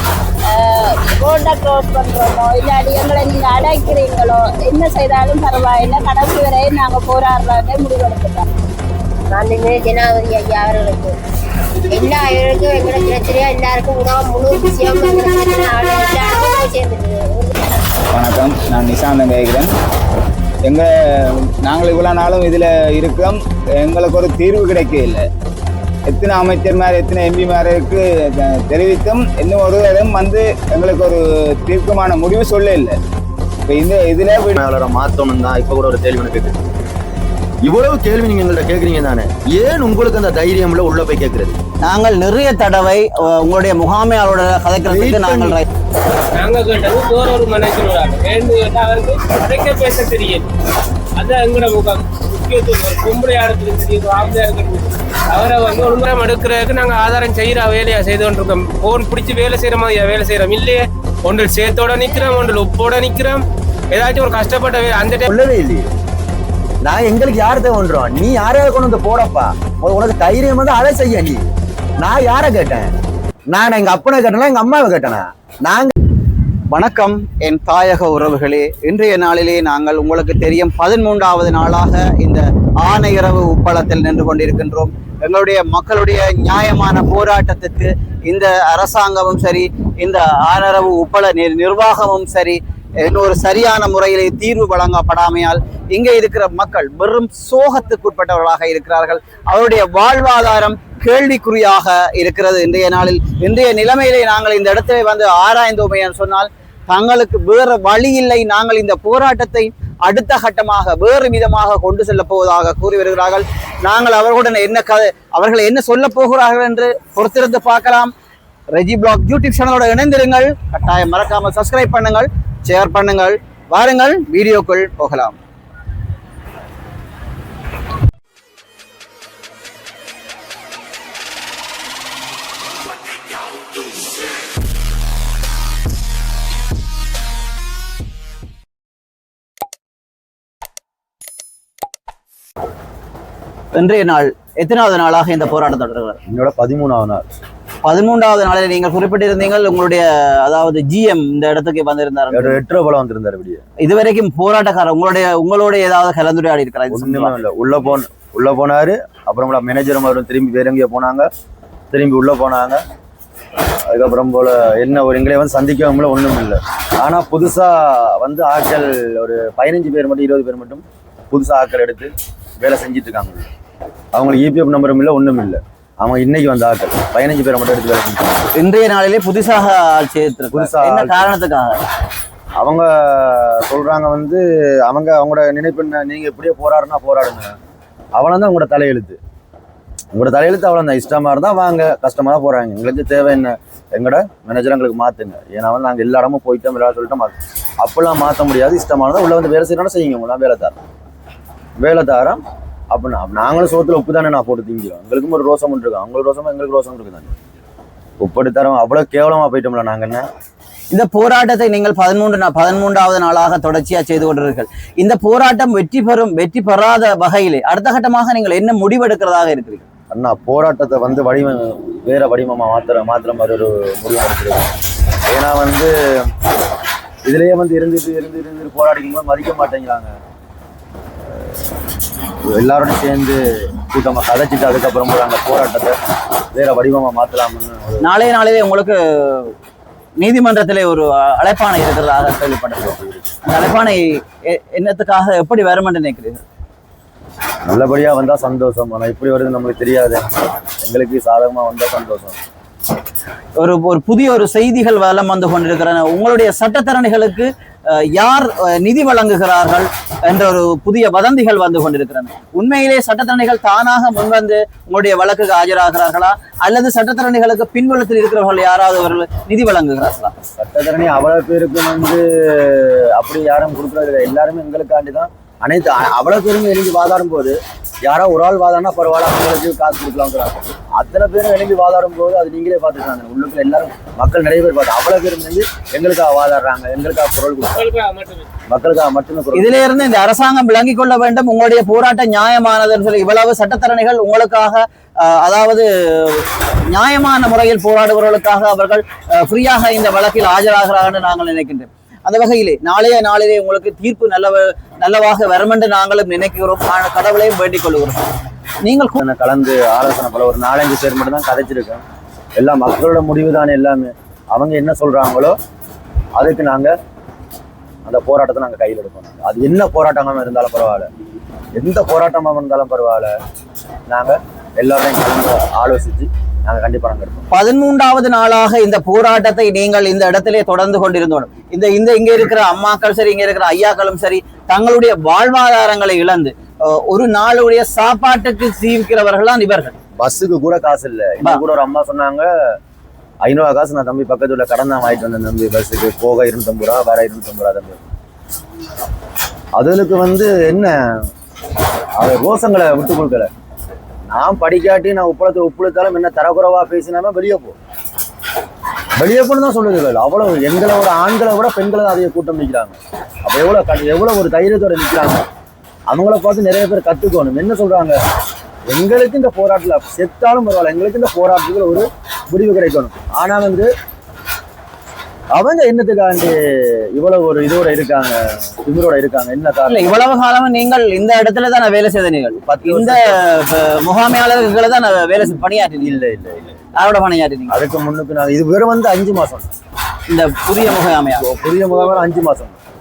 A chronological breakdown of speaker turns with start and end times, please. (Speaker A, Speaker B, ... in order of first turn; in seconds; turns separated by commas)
Speaker A: 0.5-8.5, Speaker B: 9.3-11.1, Speaker B: 11.9-17.6, Speaker C: 18.1-19.7, Speaker C: 20.6-25.2, Speaker C: 26.1-33.0, Speaker C: 33.7-34.6, Speaker D: 34.5-36.6, Speaker D: 37.6-41.6, Speaker E: 41.8-45.7, Speaker D: 44.9-45.6, Speaker F: 46.4-50.5, Speaker F: 51.2-65.3, Speaker D: 65.3-65.9, Speaker D: 66.8-72.9, Speaker D: 73.5-75.9, Speaker E: 76.7-118.1, Speaker E: 118.7-125.4, Speaker E: 143.7-146.2, Speaker D: 146.3-147.2, Speaker E: 147.8-152.6, Speaker D: 152.3-153.6, Speaker E: 153.8-157.4, Speaker D: 156.9-161.3, Speaker D: 161.9-162.8, Speaker D: 163.9-173.4, Speaker D: 174.1-178.4, Speaker E: 178.6-181.8, Speaker D: 180.5-181.2, Speaker D: 182.6-187.6, Speaker D: 188.2-189.2, Speaker D: 190.1-200.8, Speaker D: 201.8-207.3, Speaker D: 208.2-210.2, Speaker E: 210.9-219.8, Speaker D: 220.1-224.7, Speaker D: 225.3-226.3, Speaker D: 227.2-230.1, Speaker D: 232.5-236.0, Speaker D: 236.5-238.1, Speaker E: 238.0-239.5, Speaker E: 240.2-246.4, Speaker D: 242.9-243.2, Speaker D: 247.7-250.3, Speaker D: 250.8-252.4, Speaker E: 253.6-270.3, Speaker D: 270.6-287.9, Speaker F: 287.8-288.5, Speaker D: 288.7-289.8, Speaker E: 289.5-308.3, Speaker E: 308.8-309.2, Speaker D: 309.2-312.0, Speaker D: 312.6-315.6, Speaker D: 316.4-316.9, Speaker D: 318.0-321.1, Speaker D: 321.7-323.3, Speaker D: 324.1-327.4, Speaker E: 327.5-339.9, Speaker D: 340.2-342.5, Speaker D: 343.4-348.1, Speaker D: 349.8-351.0, Speaker D: 352.2-353.5, Speaker D: 354.3-357.8, Speaker D: 359.2-365.4, Speaker D: 366.1-368.1, Speaker D: 368.9-373.9, Speaker D: 375.5-376.6, Speaker D: 377.1-380.1, Speaker E: 379.9-386.2, Speaker D: 382.6-383.4, Speaker D: 386.0-386.7, Speaker E: 387.0-387.8, Speaker D: 387.7-389.7, Speaker E: 390.3-391.4, Speaker D: 391.4-392.8